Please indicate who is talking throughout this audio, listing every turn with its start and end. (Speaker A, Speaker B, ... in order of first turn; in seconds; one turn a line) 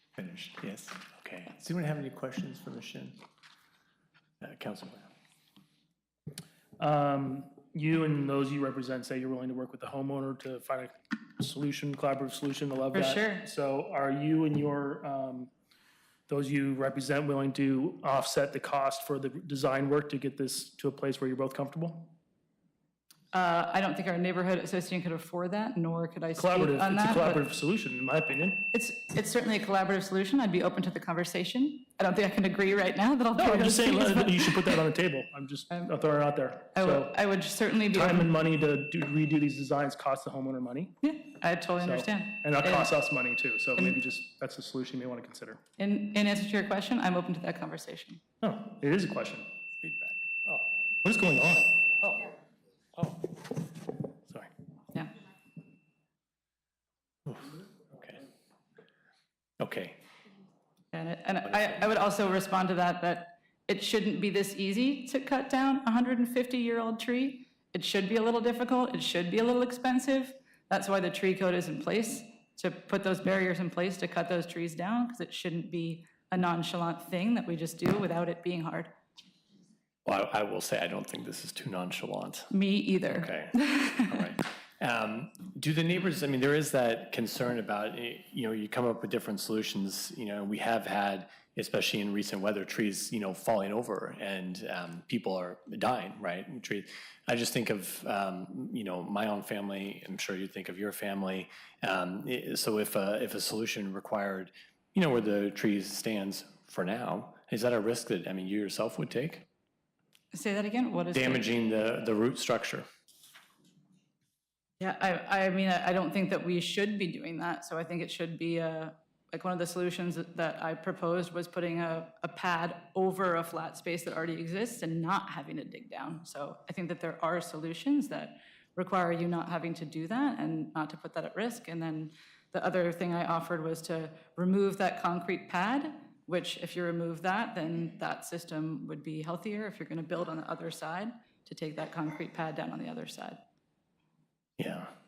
Speaker A: 0.2-3.2
Speaker A: 4.4-5.1
Speaker B: 6.8-15.5
Speaker C: 12.9-13.4
Speaker B: 16.3-22.1
Speaker C: 23.3-27.4
Speaker B: 26.4-28.7
Speaker C: 28.7-34.7
Speaker B: 33.3-37.1
Speaker C: 36.7-38.3
Speaker B: 37.9-40.9
Speaker C: 41.0-42.9
Speaker B: 41.8-45.6
Speaker C: 45.8-48.2
Speaker B: 48.4-49.5
Speaker A: 49.8-50.7
Speaker B: 51.0-51.7
Speaker A: 52.0-52.3
Speaker A: 53.0-53.3
Speaker A: 57.2-58.2
Speaker A: 59.6-60.0
Speaker C: 60.9-78.9
Speaker A: 80.0-82.5
Speaker C: 82.5-84.2
Speaker A: 83.1-109.5
Speaker C: 110.3-111.5
Speaker A: 111.1-112.9
Speaker C: 114.8-143.4
Speaker A: 144.6-144.9